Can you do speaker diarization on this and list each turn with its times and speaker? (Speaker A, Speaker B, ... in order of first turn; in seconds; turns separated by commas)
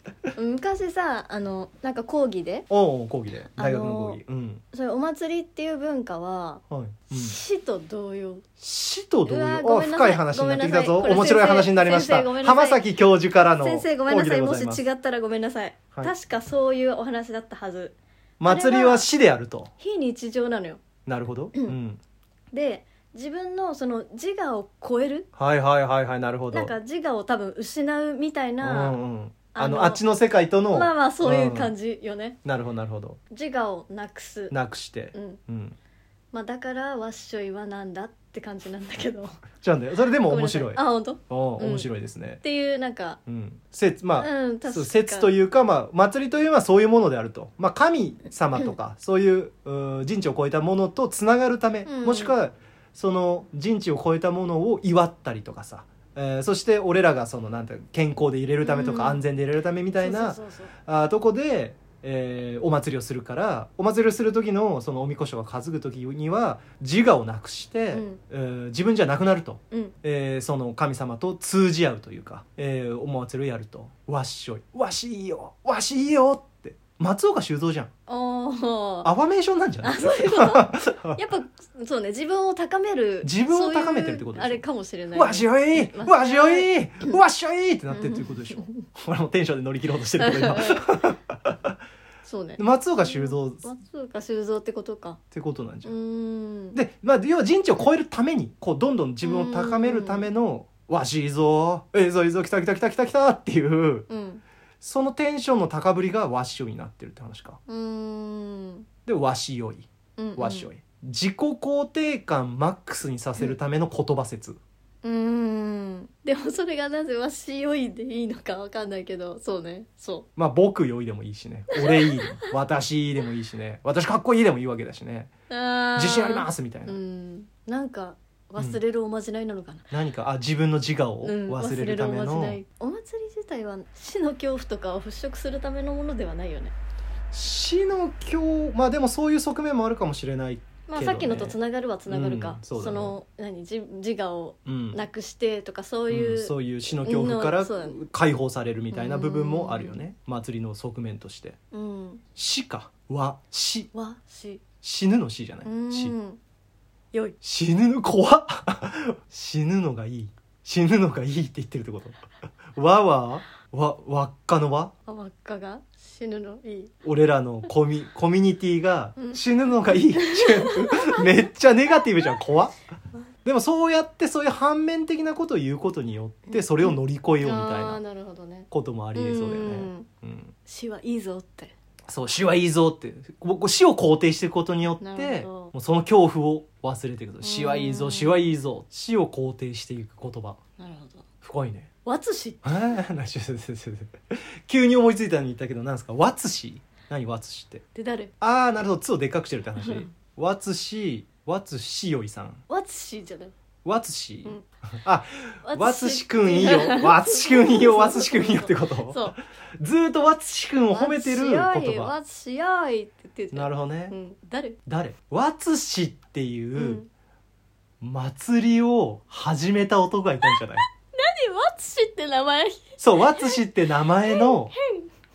Speaker A: 0.3-2.6, Speaker B: 2.7-4.6, Speaker A: 3.6-4.2, Speaker A: 4.7-8.4, Speaker B: 6.7-7.4, Speaker B: 8.6-14.8, Speaker A: 9.2-12.8, Speaker A: 13.5-19.1, Speaker B: 18.4-19.7, Speaker A: 19.8-20.8, Speaker B: 21.1-22.0, Speaker A: 22.5-25.3, Speaker B: 25.4-26.7, Speaker A: 26.5-29.0, Speaker B: 28.6-31.7, Speaker A: 29.5-30.0, Speaker A: 30.7-32.4, Speaker B: 32.4-33.2, Speaker A: 33.3-34.5, Speaker B: 34.5-35.8, Speaker A: 35.1-35.4, Speaker A: 36.3-39.4, Speaker B: 39.6-42.4, Speaker A: 40.2-41.9, Speaker A: 42.4-43.2, Speaker B: 43.3-77.9, Speaker A: 44.2-45.3, Speaker A: 51.9-52.3, Speaker A: 58.6-59.2, Speaker A: 60.0-60.7, Speaker A: 67.9-68.2, Speaker A: 78.1-79.1, Speaker B: 79.0-81.2, Speaker A: 79.8-87.2, Speaker B: 83.2-84.6, Speaker B: 85.1-91.7, Speaker A: 87.9-88.8, Speaker A: 90.2-91.0, Speaker A: 92.2-95.2, Speaker B: 92.6-93.7, Speaker B: 95.3-95.9, Speaker A: 95.8-96.8, Speaker B: 96.7-104.1, Speaker A: 99.2-100.3, Speaker A: 104.1-104.4, Speaker B: 104.8-107.6, Speaker A: 107.7-108.9, Speaker B: 109.0-114.6, Speaker A: 110.2-110.7, Speaker A: 115.0-120.2, Speaker B: 120.3-125.3, Speaker A: 121.7-122.5, Speaker A: 125.5-129.8, Speaker B: 125.9-127.0, Speaker B: 129.9-132.6, Speaker A: 131.2-136.7, Speaker B: 137.3-143.2, Speaker A: 140.9-148.0, Speaker B: 144.7-145.0, Speaker B: 146.1-151.6, Speaker A: 148.9-150.0, Speaker A: 151.7-152.2, Speaker B: 152.3-153.9, Speaker A: 153.9-154.6, Speaker B: 154.8-156.1, Speaker A: 155.6-156.4, Speaker B: 157.4-162.2, Speaker B: 162.7-164.9, Speaker A: 165.1-166.9, Speaker B: 167.0-172.7, Speaker A: 169.2-171.3, Speaker B: 173.4-178.0, Speaker A: 176.5-180.1, Speaker B: 178.7-180.5, Speaker A: 180.7-181.7, Speaker B: 182.1-190.6, Speaker A: 185.0-185.7, Speaker A: 187.4-188.4, Speaker A: 190.8-191.2, Speaker B: 191.4-191.9, Speaker A: 192.0-192.8, Speaker B: 192.6-197.8, Speaker A: 197.9-198.3, Speaker B: 198.4-202.6, Speaker A: 199.8-200.1, Speaker A: 202.7-203.5, Speaker B: 203.8-212.1, Speaker A: 205.6-209.3, Speaker A: 210.9-214.8, Speaker B: 213.5-214.1, Speaker B: 214.9-217.0, Speaker A: 216.8-217.1, Speaker B: 218.0-220.8, Speaker A: 220.5-225.1, Speaker B: 223.0-224.7